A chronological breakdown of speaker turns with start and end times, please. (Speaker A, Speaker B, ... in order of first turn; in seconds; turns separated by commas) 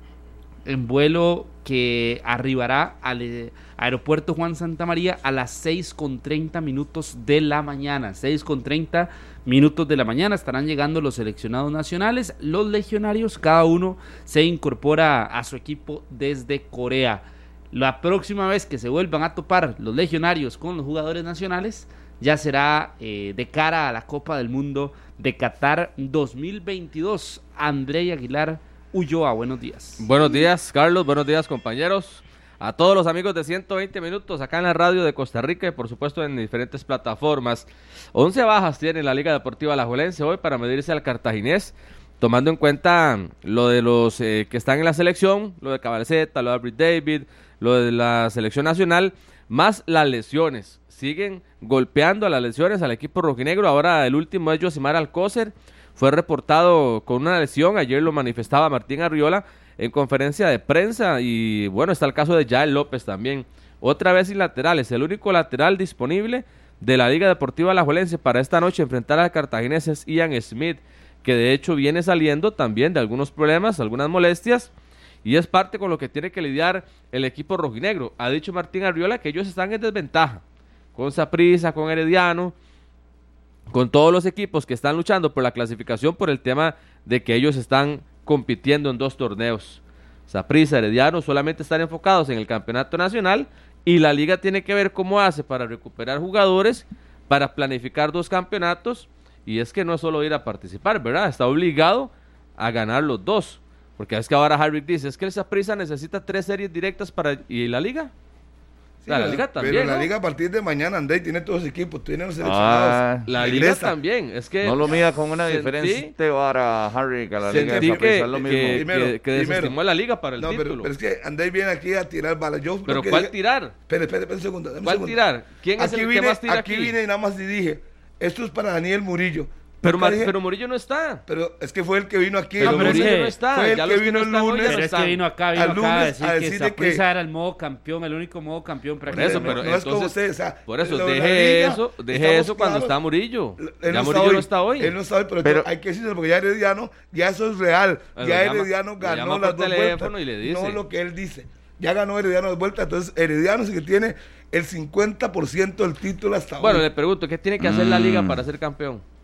Speaker A: 0.7-30.0, Speaker B: 30.0-74.7, Speaker B: 75.2-80.4, Speaker B: 81.0-82.5, Speaker B: 83.7-108.1, Speaker C: 109.0-114.0, Speaker B: 109.1-110.1, Speaker D: 112.4-113.3, Speaker B: 113.3-116.1, Speaker D: 114.6-118.9, Speaker C: 117.4-119.8, Speaker B: 117.5-120.9, Speaker C: 120.4-123.3, Speaker B: 122.9-123.7, Speaker C: 123.9-125.2, Speaker B: 124.8-127.0, Speaker C: 125.8-130.3, Speaker B: 129.8-131.2, Speaker C: 131.3-134.8, Speaker B: 132.6-135.2, Speaker A: 132.6-133.3, Speaker A: 134.6-139.6, Speaker C: 135.5-137.0, Speaker C: 139.1-142.9, Speaker B: 139.1-140.2, Speaker B: 140.7-144.9, Speaker C: 143.6-156.9, Speaker D: 145.4-145.7, Speaker B: 148.2-150.8, Speaker B: 156.6-159.0, Speaker D: 157.6-158.4